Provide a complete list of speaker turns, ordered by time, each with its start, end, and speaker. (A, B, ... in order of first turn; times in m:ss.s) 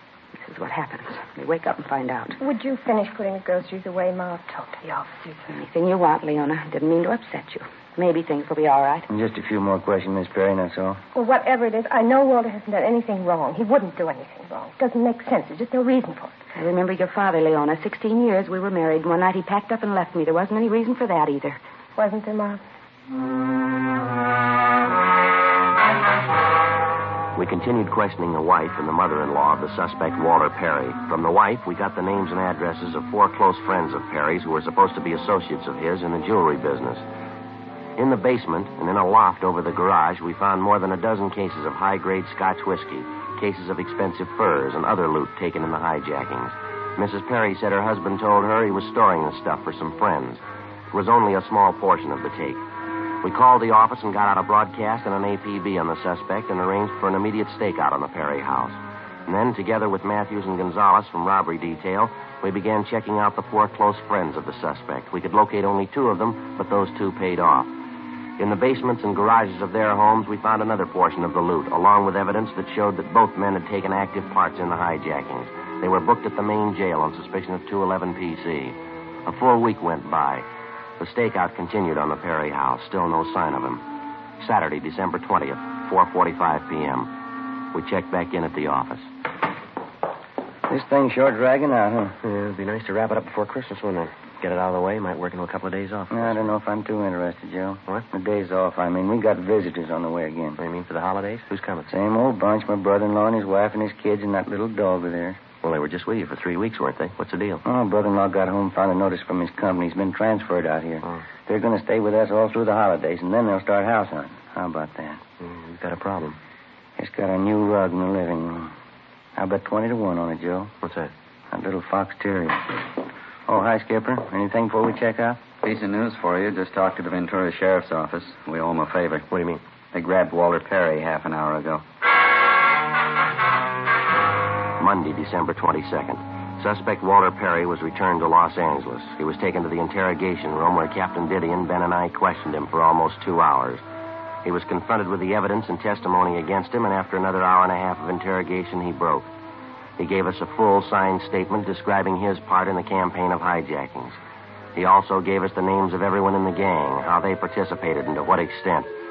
0:00.4-0:02.4 A
0:02.4-0:05.5 B
0:05.5-0:09.1 A
0:09.1-0:11.0 C
0:11.1-0:16.3 B
0:16.5-0:21.6 A
0:22.0-0:22.6 B
0:27.3-0:37.0 D
0:38.0-0:52.6 D
0:53.2-1:07.7 D
1:08.4-1:20.4 D
1:21.0-1:23.8 D
1:24.4-1:27.1 D
1:27.7-1:29.1 D
1:30.7-1:32.2 C
1:32.2-1:36.5 D
1:36.1-1:40.6 C
1:40.6-1:41.9 D
1:41.9-1:45.4 C
1:45.6-1:47.6 D
1:47.6-1:55.2 C
1:55.4-1:56.4 D
1:57.0-1:58.7 C
1:59.4-2:00.7 C
2:00.8-2:01.1 D
2:01.5-2:02.6 C
2:03.5-2:05.4 C
2:05.6-2:09.3 E
2:09.3-2:09.6 D
2:09.9-2:11.8 E
2:14.8-2:23.8 D
2:24.4-2:29.2 D
2:30.0-2:34.2 D
2:34.7-2:38.9 D